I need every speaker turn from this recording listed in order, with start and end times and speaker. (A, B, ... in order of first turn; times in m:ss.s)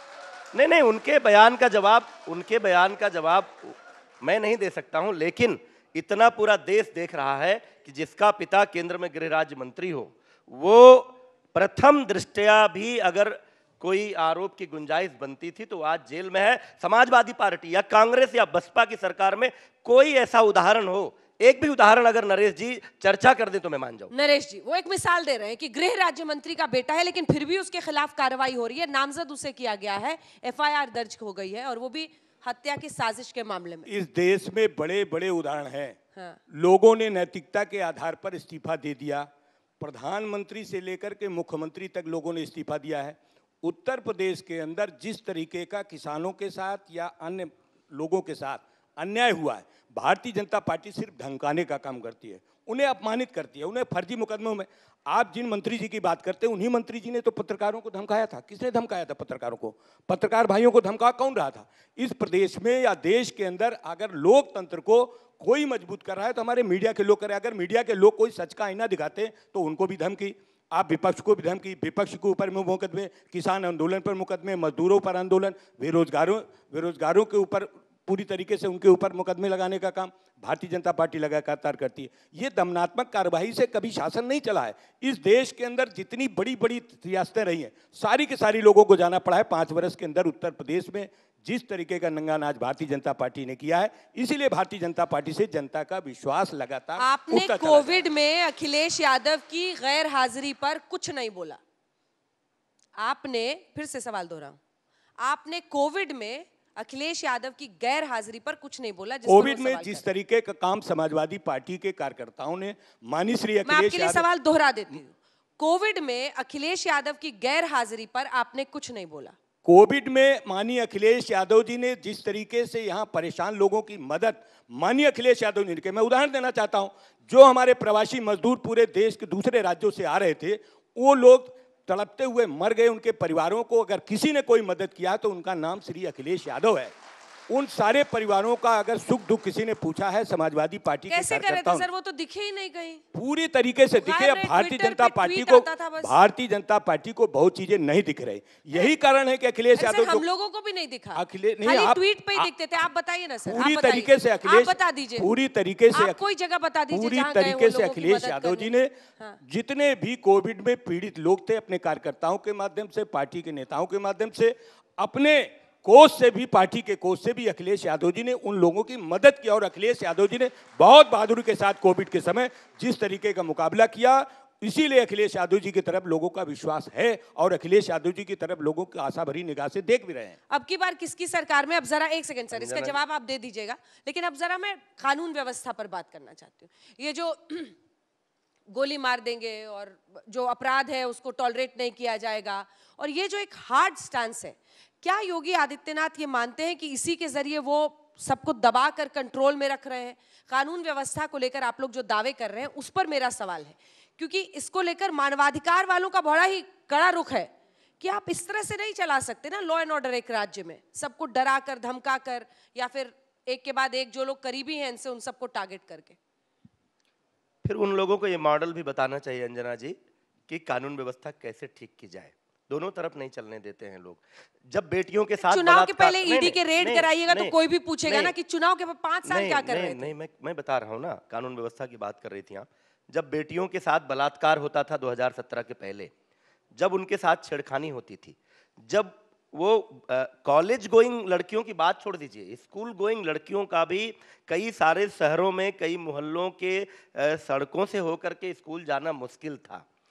0:00.5-0:24.1 A
0:24.1-0:33.9 B
0:33.8-0:36.0 C
0:36.1-0:36.4 B
0:36.5-0:39.3 C
0:39.8-1:38.0 C
1:37.0-1:41.6 B
1:43.0-1:44.6 B
1:45.2-1:50.0 B
1:49.2-1:54.2 C
1:53.6-1:59.3 B
1:59.6-2:16.9 C
2:17.5-2:21.9 C
2:21.1-2:23.0 B
2:23.1-2:30.2 C
2:24.0-2:26.1 B
2:29.7-2:35.3 B
2:31.1-2:32.5 C
2:33.4-2:36.2 C
2:35.9-2:39.4 B
2:36.9-3:00.4 C
3:00.5-3:07.7 B
3:02.5-3:03.0 A
3:08.7-3:36.2 B
3:37.6-3:40.0 A
3:40.5-3:47.5 A
3:45.4-3:50.1 B
3:48.1-3:48.3 A
3:49.3-3:56.1 A
3:56.8-4:09.8 A